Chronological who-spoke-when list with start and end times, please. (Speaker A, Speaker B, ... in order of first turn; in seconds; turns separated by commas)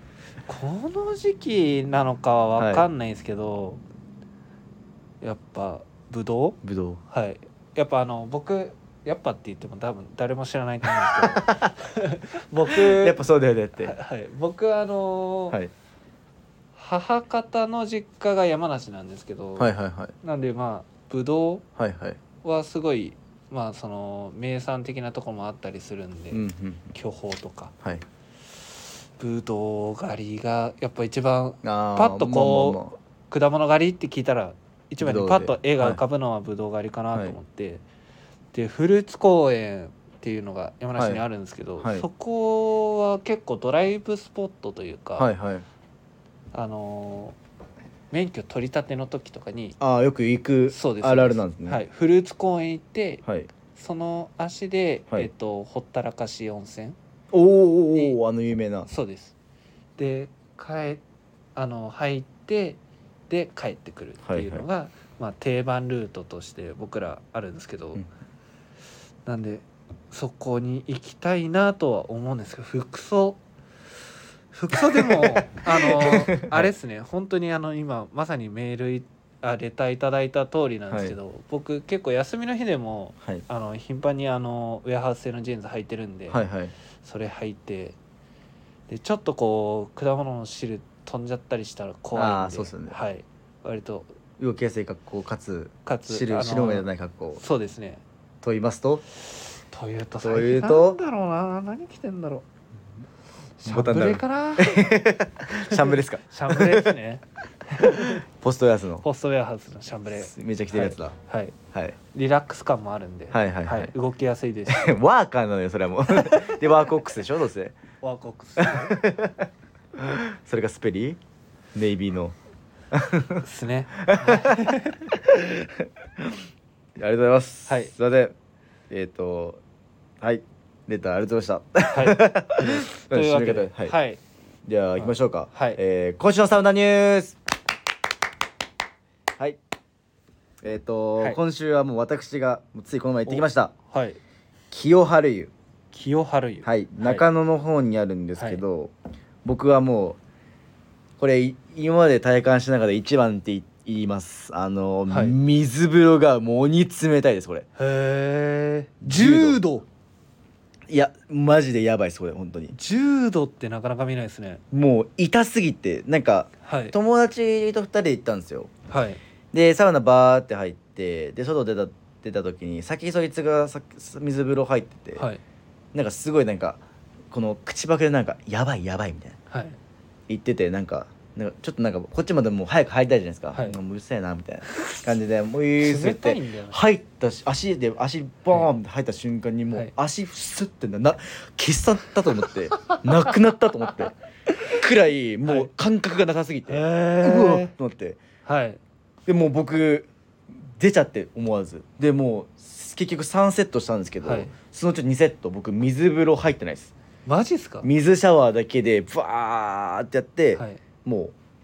Speaker A: 0.5-3.8, Speaker B: 2.6-2.9, Speaker A: 5.2-13.2, Speaker B: 6.6-7.0, Speaker B: 11.0-11.7, Speaker B: 12.7-13.9, Speaker A: 13.8-15.6, Speaker A: 16.7-21.6, Speaker B: 19.6-20.1, Speaker B: 21.8-22.2, Speaker A: 22.4-27.7, Speaker B: 26.3-26.9, Speaker A: 29.2-37.8, Speaker B: 31.6-32.9, Speaker B: 35.0-36.0, Speaker A: 38.5-45.3, Speaker B: 41.0-41.2, Speaker B: 41.8-42.0, Speaker B: 45.2-45.6, Speaker A: 46.5-47.4, Speaker A: 48.1-49.8, Speaker B: 49.8-51.8, Speaker A: 50.7-53.2, Speaker B: 53.2-53.5, Speaker A: 53.7-57.0, Speaker B: 57.3-58.9, Speaker A: 58.9-59.3, Speaker A: 60.0-61.0, Speaker A: 61.5-68.0, Speaker B: 64.2-64.6, Speaker A: 69.2-73.4, Speaker A: 74.5-86.4, Speaker B: 74.8-76.7, Speaker B: 80.9-81.2, Speaker B: 86.3-86.7, Speaker A: 87.0-88.0, Speaker A: 88.9-94.2, Speaker B: 92.1-93.0, Speaker B: 94.4-97.4, Speaker A: 95.8-98.0, Speaker B: 98.4-99.0, Speaker A: 99.3-102.5, Speaker B: 100.2-101.0, Speaker A: 103.6-105.0, Speaker B: 103.6-106.9, Speaker A: 105.7-108.2, Speaker B: 107.8-109.0, Speaker A: 109.0-111.5, Speaker B: 110.1-111.1, Speaker A: 112.1-114.9, Speaker B: 113.3-113.9, Speaker B: 114.7-117.8, Speaker A: 116.1-116.5, Speaker A: 118.0-119.0, Speaker B: 118.6-121.2, Speaker B: 121.7-122.3, Speaker B: 122.9-123.4, Speaker A: 123.4-125.1, Speaker B: 124.0-126.4, Speaker B: 127.0-128.3, Speaker A: 127.7-127.9, Speaker B: 128.9-129.6, Speaker B: 130.2-133.9, Speaker A: 131.9-134.2, Speaker B: 134.7-137.4, Speaker A: 135.0-135.8, Speaker B: 140.6-143.7, Speaker A: 143.2-144.2, Speaker B: 144.7-145.5, Speaker A: 145.9-147.2, Speaker B: 146.6-148.9, Speaker A: 148.4-148.6, Speaker B: 149.4-150.2, Speaker B: 151.2-157.7, Speaker A: 155.1-155.4, Speaker A: 157.8-159.8, Speaker B: 159.0-159.6, Speaker B: 160.9-162.7, Speaker A: 162.7-164.6, Speaker B: 164.7-168.7, Speaker A: 166.6-166.9, Speaker A: 168.9-169.2, Speaker B: 169.5-175.2, Speaker A: 175.2-175.4, Speaker B: 175.9-179.4, Speaker A: 179.5-179.8, Speaker B: 180.3-194.1, Speaker A: 183.5-183.8, Speaker A: 184.7-185.0, Speaker A: 185.8-186.8, Speaker B: 194.7-198.2, Speaker A: 195.4-195.7, Speaker A: 196.7-197.7, Speaker A: 198.4-198.8, Speaker B: 199.3-206.9, Speaker A: 204.2-204.5, Speaker A: 207.2-207.9, Speaker B: 207.8-211.3, Speaker A: 210.5-210.8